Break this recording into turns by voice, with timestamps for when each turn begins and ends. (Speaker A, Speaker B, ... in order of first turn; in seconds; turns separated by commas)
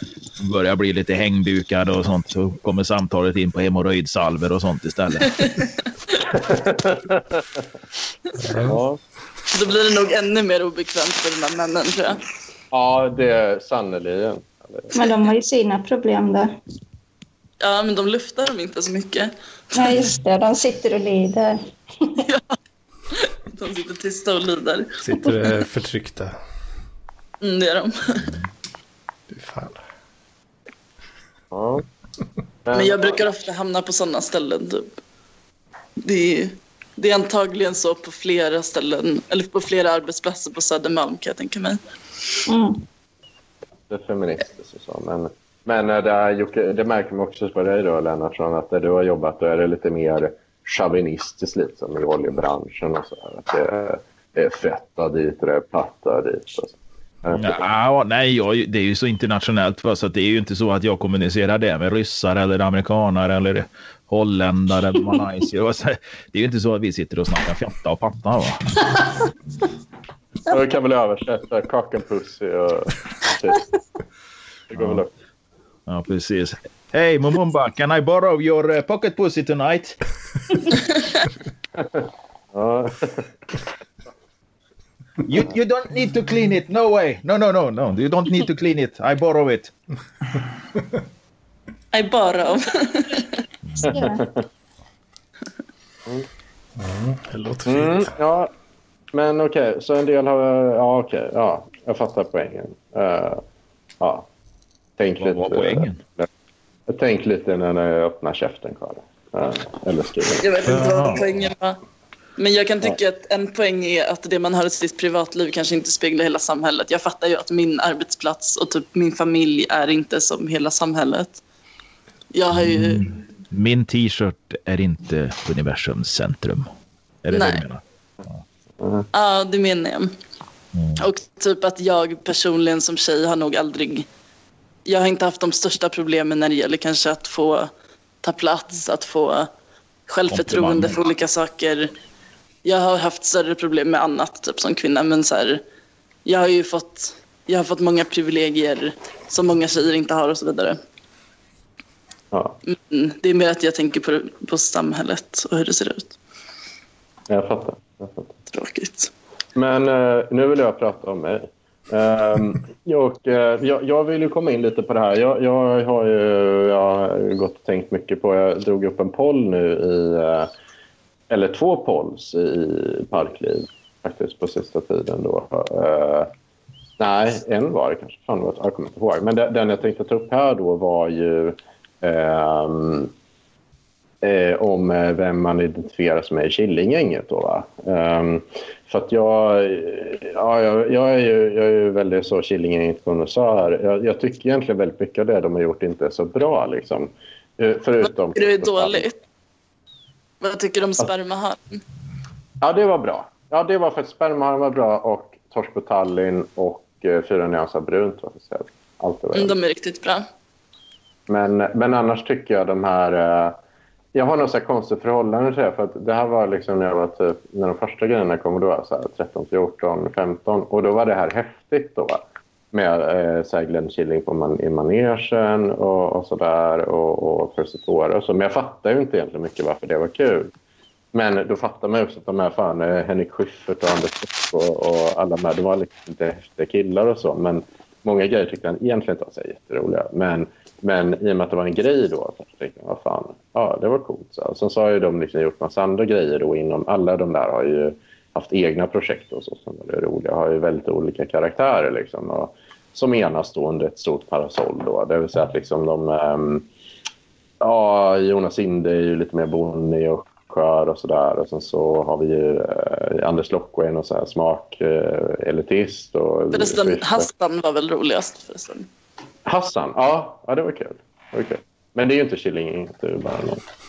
Speaker A: 0.4-5.4, Speaker B: 5.4-5.7, Speaker C: 6.2-7.5, Speaker D: 8.4-8.8, Speaker C: 8.7-9.0, Speaker B: 9.5-12.2, Speaker C: 12.7-14.9, Speaker E: 14.9-16.5, Speaker B: 17.6-20.1, Speaker E: 19.7-21.6, Speaker B: 22.2-22.5, Speaker B: 23.2-24.9, Speaker D: 25.0-26.4, Speaker B: 27.4-28.3, Speaker D: 29.3-29.8, Speaker C: 31.5-31.8, Speaker C: 32.6-33.2, Speaker B: 32.7-34.9, Speaker B: 36.0-41.8, Speaker E: 42.5-42.8, Speaker C: 43.9-57.6, Speaker A: 57.3-68.6, Speaker C: 70.5-73.6, Speaker C: 74.7-75.1, Speaker A: 74.8-75.0, Speaker A: 75.9-80.0, Speaker C: 81.8-83.3, Speaker A: 85.2-89.7, Speaker B: 91.9-93.4, Speaker E: 93.8-94.2, Speaker C: 93.9-94.4, Speaker D: 96.8-98.1, Speaker C: 97.7-98.5, Speaker C: 99.1-103.4, Speaker C: 104.0-104.3, Speaker C: 105.0-106.3, Speaker A: 105.2-106.0, Speaker C: 106.9-110.4, Speaker B: 110.4-111.8, Speaker A: 110.7-111.3, Speaker B: 112.4-121.4, Speaker B: 122.3-123.1, Speaker A: 122.5-126.7, Speaker A: 127.2-127.8, Speaker B: 127.3-127.6, Speaker C: 128.8-129.1, Speaker B: 129.1-130.1, Speaker A: 130.7-131.0, Speaker B: 131.0-134.1, Speaker B: 134.8-137.7, Speaker B: 138.2-139.5, Speaker B: 140.1-141.9, Speaker A: 140.3-141.0, Speaker B: 142.6-145.6, Speaker B: 146.2-150.8, Speaker C: 152.3-152.6, Speaker B: 152.7-156.2, Speaker C: 157.3-158.3, Speaker B: 158.5-159.1, Speaker C: 159.6-170.5, Speaker C: 171.3-176.3, Speaker C: 177.0-183.1, Speaker C: 184.2-199.1, Speaker B: 198.0-199.2, Speaker B: 200.4-201.8, Speaker C: 202.6-209.5, Speaker B: 209.3-210.2, Speaker C: 211.3-213.6, Speaker C: 214.1-230.5, Speaker C: 231.1-256.7, Speaker C: 257.6-267.3, Speaker B: 266.5-268.9, Speaker C: 269.4-273.6